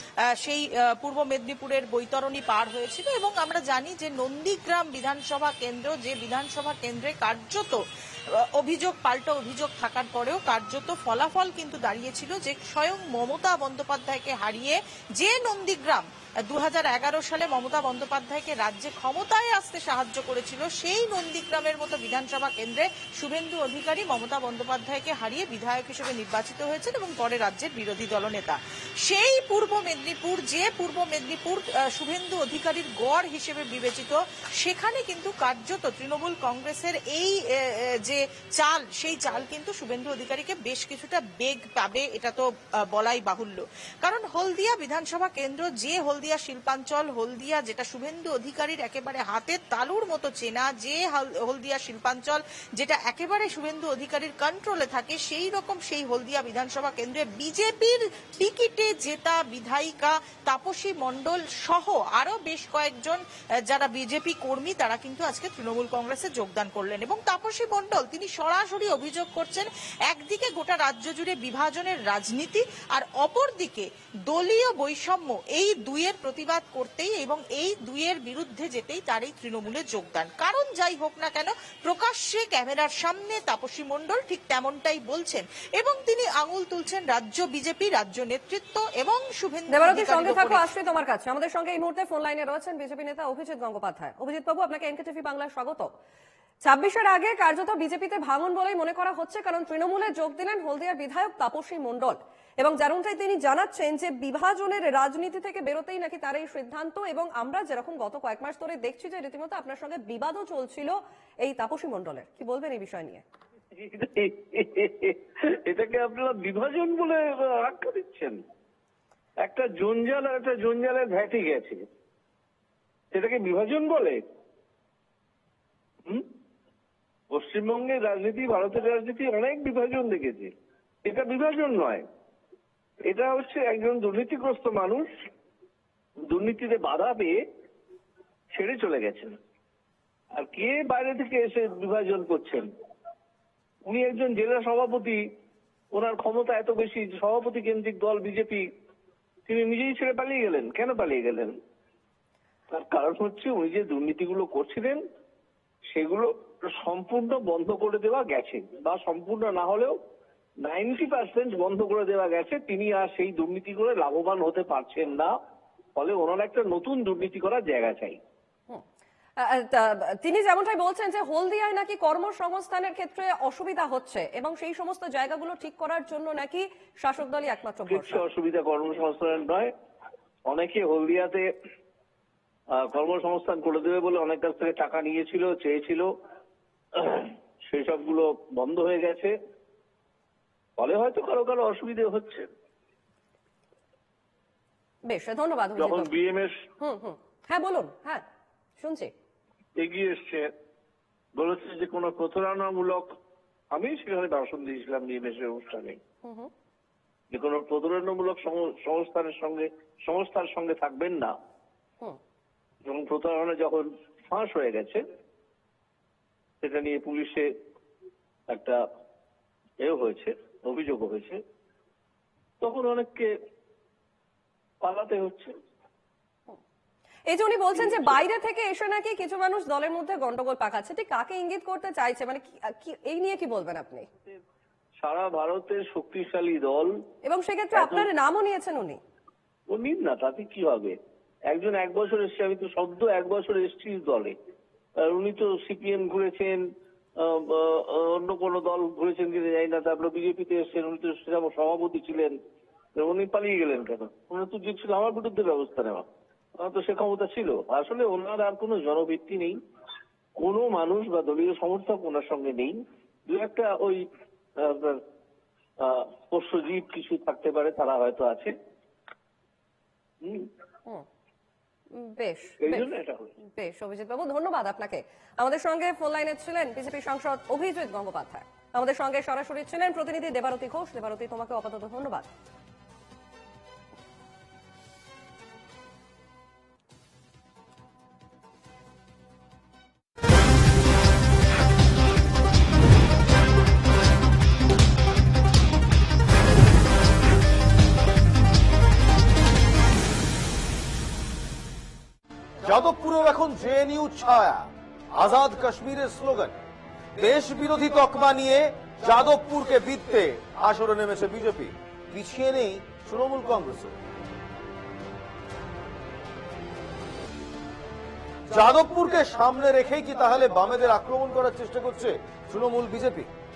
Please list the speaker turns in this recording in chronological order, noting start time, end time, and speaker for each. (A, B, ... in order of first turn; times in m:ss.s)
0:00.4-1:30.7 A
1:29.7-1:35.9 B
1:36.6-1:53.2 B
1:53.8-1:58.4 C
1:59.4-2:01.8 C
2:03.1-2:04.2 C
2:07.3-2:10.5 C
2:11.0-2:12.0 C
2:13.1-2:15.1 C
2:16.3-2:17.4 C
2:18.5-2:19.4 C
2:20.4-2:22.6 C
2:23.8-2:25.2 C
2:25.9-2:28.6 C
2:29.5-2:31.5 C
2:32.7-2:35.0 C
2:35.9-2:39.9 C
2:40.6-2:45.3 C
2:46.0-2:48.2 C
2:49.4-2:58.3 B
2:57.9-2:59.7 C
3:00.5-3:01.4 C
3:02.8-3:06.0 C
3:07.0-3:09.3 C
3:10.8-3:12.4 C
3:15.1-3:16.2 B
3:15.8-3:16.5 C
3:16.8-3:18.2 B
3:18.8-3:19.1 B
3:19.8-3:20.4 C
3:21.4-3:23.1 C
3:23.7-3:26.0 C
3:26.2-3:26.5 B
3:27.3-3:31.3 C
3:32.9-3:35.0 C
3:36.6-3:37.4 C
3:38.5-3:38.8 C
3:39.8-3:41.4 C
3:42.6-3:43.3 C
3:44.8-3:45.5 C
3:47.3-3:54.1 B
3:55.0-3:56.9 C
3:57.3-3:59.0 B
3:57.8-3:58.1 C
3:59.7-4:01.0 C
4:01.5-4:04.4 C
4:05.0-4:06.6 C
4:07.3-4:12.3 C
4:13.0-4:16.1 C
4:16.6-4:19.6 C
4:20.4-4:24.0 C
4:24.6-4:25.0 C
4:25.8-4:28.5 C
4:31.9-4:32.9 B
4:32.6-4:33.3 C
4:33.6-4:42.3 B
5:02.6-5:06.6 D
5:07.2-5:13.9 D
5:18.5-5:23.3 D